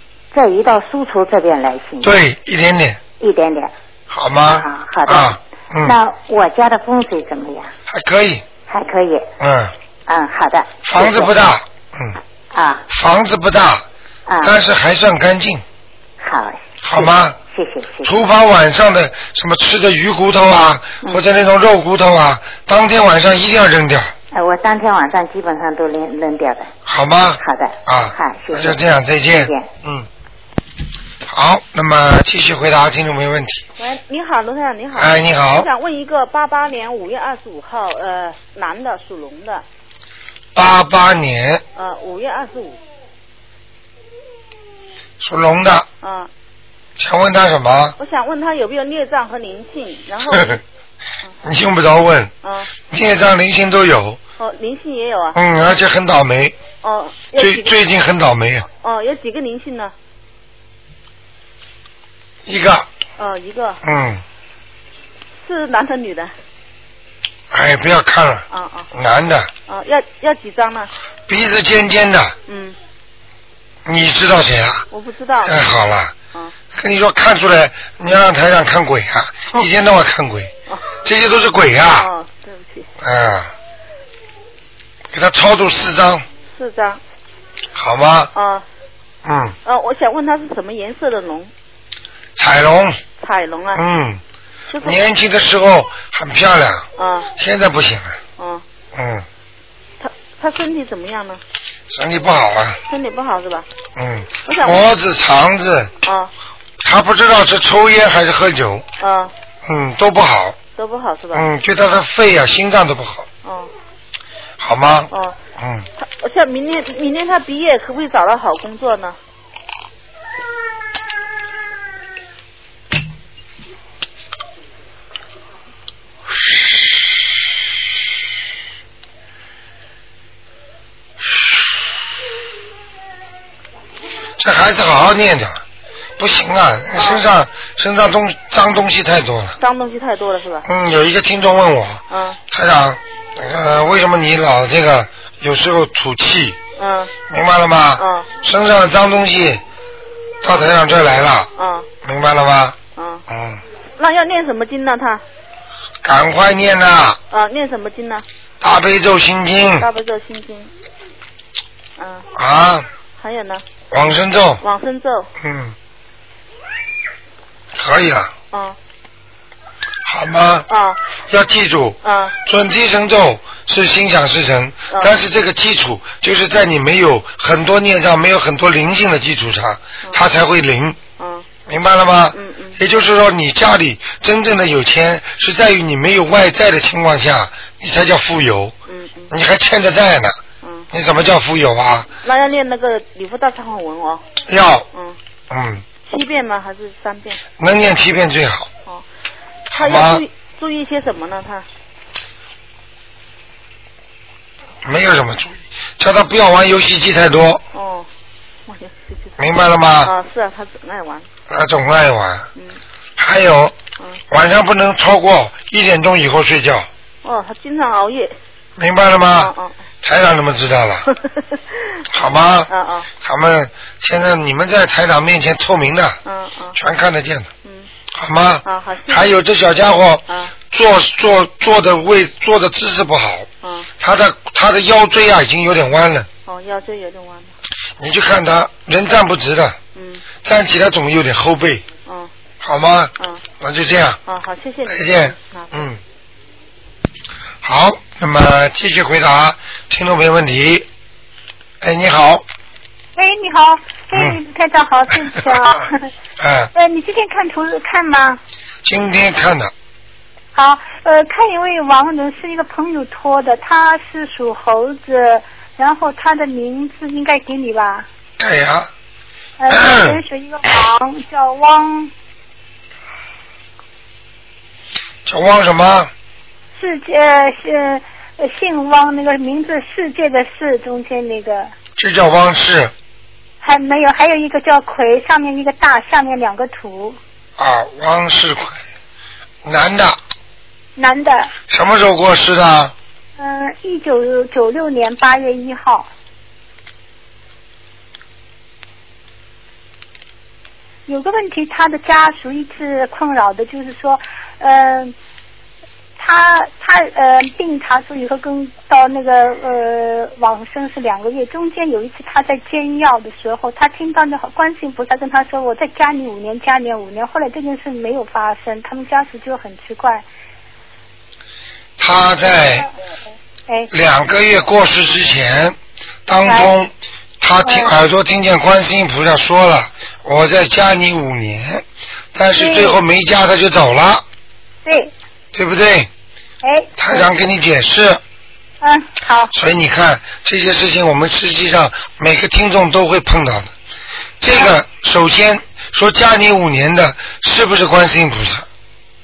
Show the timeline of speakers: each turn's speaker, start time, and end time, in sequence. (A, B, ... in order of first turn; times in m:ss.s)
0:00.3-0:02.2 A
0:02.0-0:03.0 B
0:03.2-0:03.7 A
0:04.1-0:06.0 B
0:04.4-0:07.7 A
0:07.9-0:08.4 B
0:08.7-0:09.3 A
0:09.4-0:09.7 B
0:10.1-0:11.4 A
0:10.9-0:12.2 B
0:12.5-0:12.8 A
0:12.9-0:13.8 B
0:14.3-0:14.6 A
0:14.4-0:15.6 B
0:16.2-0:18.1 A
0:16.8-0:17.4 B
0:18.0-0:24.1 B
0:24.3-0:26.7 A
0:26.9-0:30.1 B
0:27.4-0:29.7 A
0:31.3-0:33.6 B
0:33.8-0:39.6 C
0:35.0-0:35.7 B
0:40.6-0:41.6 B
0:41.8-0:42.8 C
0:45.2-0:45.9 B
0:46.0-0:46.3 C
0:47.0-0:48.0 B
0:48.0-0:50.6 C
0:50.3-0:50.6 B
0:51.4-0:52.3 B
0:52.4-0:52.8 C
0:52.9-0:54.2 B
0:54.4-0:55.4 C
0:55.4-0:56.6 B
0:56.8-0:57.7 C
0:57.4-0:58.7 B
0:58.7-0:59.9 C
1:02.5-1:02.9 B
1:03.2-1:03.8 C
1:03.8-1:04.2 B
1:05.4-1:06.3 C
1:07.5-1:09.5 B
1:08.5-1:08.9 C
1:09.7-1:10.9 C
1:11.3-1:12.4 B
1:12.5-1:12.8 C
1:13.8-1:14.8 B
1:14.9-1:15.6 C
1:15.4-1:16.2 B
1:16.7-1:20.5 B
1:20.7-1:21.0 C
1:21.0-1:22.1 B
1:22.0-1:22.9 C
1:23.0-1:23.5 B
1:25.1-1:26.3 B
1:26.5-1:27.0 C
1:27.8-1:28.3 B
1:28.3-1:28.6 C
1:29.2-1:29.6 B
1:29.6-1:31.5 C
1:32.4-1:33.0 B
1:33.2-1:33.8 C
1:33.7-1:34.2 B
1:34.7-1:35.0 C
1:34.8-1:38.2 B
1:37.0-1:37.3 C
1:38.4-1:38.6 C
1:38.9-1:39.2 B
1:40.0-1:41.4 C
1:41.9-1:42.8 B
1:42.9-1:43.7 C
1:44.0-1:45.9 B
1:44.4-1:44.9 C
1:46.0-1:46.3 C
1:46.8-1:48.8 B
1:49.0-1:49.3 C
1:49.6-1:50.6 B
1:50.8-1:51.5 C
1:51.3-1:53.3 B
1:53.4-1:53.7 C
1:54.6-1:55.9 B
1:55.1-1:55.4 C
1:56.0-1:59.2 C
2:14.4-2:15.6 B
2:16.2-2:19.6 B
2:17.0-2:17.3 C
2:19.6-2:20.7 C
2:20.7-2:26.6 B
2:22.1-2:22.4 C
2:26.8-2:27.2 C
2:27.3-2:29.6 B
2:28.0-2:28.3 C
2:30.4-2:31.5 B
2:31.6-2:31.9 C
2:32.0-2:32.8 B
2:33.0-2:33.2 C
2:33.3-2:33.6 B
2:34.0-2:35.2 C
2:36.0-2:37.2 B
2:37.3-2:38.2 C
2:38.6-2:39.9 B
2:39.8-2:40.7 C
2:42.0-2:42.3 C
2:42.4-2:42.9 B
2:43.2-2:43.6 C
2:43.9-2:44.6 B
2:44.6-2:45.3 C
2:45.4-2:45.8 B
2:47.8-2:48.3 B
2:48.5-2:48.8 C
2:50.1-2:50.7 B
2:50.7-2:51.0 C
2:51.3-3:01.0 B
2:52.0-2:52.4 C
3:01.2-3:01.5 C
3:01.7-3:08.8 B
3:02.3-3:02.8 C
3:08.9-3:09.3 C
3:09.3-3:10.4 B
3:10.6-3:10.9 C
3:10.9-3:12.1 B
3:12.2-3:14.2 C
3:14.5-3:14.9 B
3:15.5-3:15.8 B
3:16.0-3:17.4 C
3:17.6-3:18.7 B
3:19.7-3:21.7 C
3:19.7-3:20.2 B
3:24.8-3:27.6 B
3:27.7-3:28.1 C
3:28.7-3:29.3 C
3:29.4-3:30.1 B
3:30.0-3:31.3 C
3:31.5-3:32.5 B
3:33.2-3:33.8 B
3:34.3-3:36.9 B
3:37.2-3:38.4 C
3:38.8-3:39.5 B
3:39.4-3:39.7 C
3:40.0-3:41.1 B
3:41.1-3:42.0 C
3:42.1-3:46.2 B
3:42.7-3:43.1 C
3:46.2-3:46.8 C
3:46.8-3:47.5 B
3:47.6-3:47.9 C
3:48.1-3:53.5 B
3:48.6-3:49.3 C
3:50.3-3:50.6 C
3:53.6-3:53.9 C
3:54.0-3:56.3 B
3:56.5-3:57.5 C
3:58.0-3:59.8 B
4:00.0-4:00.3 C
4:00.4-4:01.8 B
4:02.0-4:02.3 C
4:02.6-4:04.2 B
4:04.3-4:05.9 C
4:04.9-4:06.0 B
4:07.6-4:10.9 B
4:11.8-4:12.4 B
4:13.2-4:16.0 D
4:14.1-4:14.4 B
4:15.4-4:15.8 B
4:16.4-4:16.7 B
4:16.8-4:18.4 D
4:18.8-4:19.7 B
4:20.6-4:28.1 D
4:28.4-4:28.9 B
4:29.6-4:32.1 D
4:29.7-4:30.2 B
4:35.3-4:36.1 B
4:36.8-4:41.7 D
4:42.0-4:42.9 B
4:43.6-4:47.2 D
4:47.6-4:48.8 B
4:49.6-4:50.2 B
4:51.0-4:51.5 D
4:51.7-4:53.0 B
4:53.4-4:56.1 D
5:01.1-5:05.2 D
5:06.2-5:20.2 D
5:22.0-5:22.9 B
5:23.9-5:34.2 B
5:26.5-5:26.7 D
5:27.6-5:28.0 D
5:32.6-5:33.0 D
5:34.8-5:35.1 D
5:35.5-5:36.1 B
5:36.6-5:37.3 D
5:37.0-5:38.2 B
5:38.8-5:39.5 D
5:39.5-5:43.7 B
5:44.4-5:48.7 B